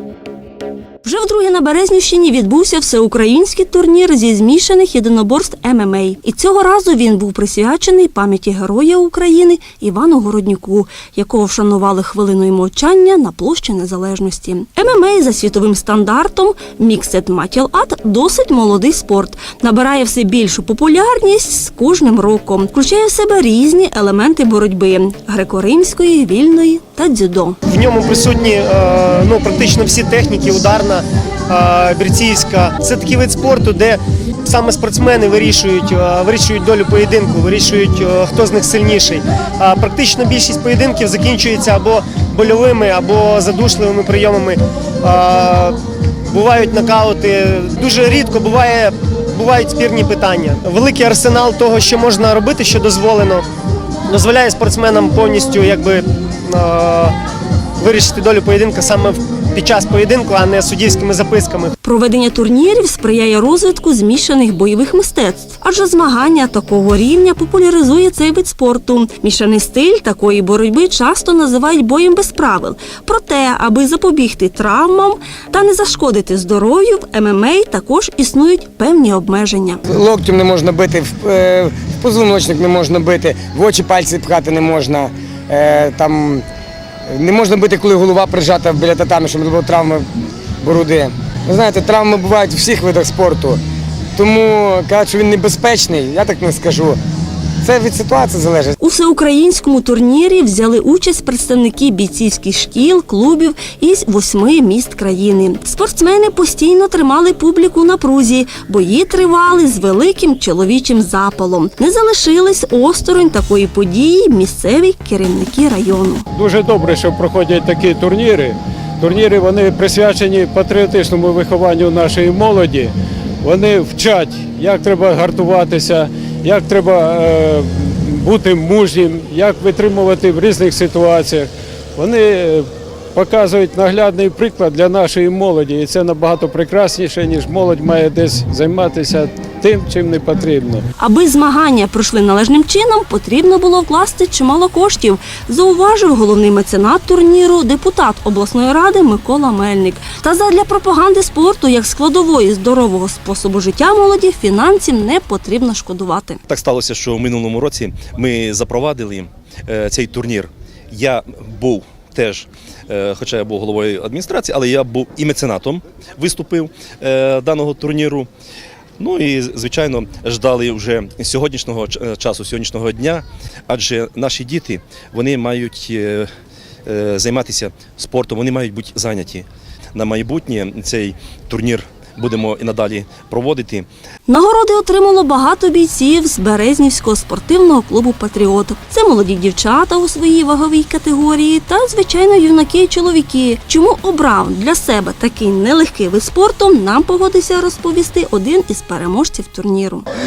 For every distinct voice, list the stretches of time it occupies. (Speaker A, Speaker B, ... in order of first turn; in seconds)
Speaker A: 1.0-27.6, 61.8-79.8, 98.8-116.3, 141.0-156.4, 184.3-200.1
Speaker B: 27.7-45.8, 46.3-53.4, 54.1-57.1, 57.8-61.7
Speaker C: 79.9-86.5, 87.1-90.0, 90.6-93.6, 94.2-97.0, 97.6-98.7
Speaker D: 116.3-140.8
Speaker E: 156.5-168.3, 169.0-176.3, 176.9-183.9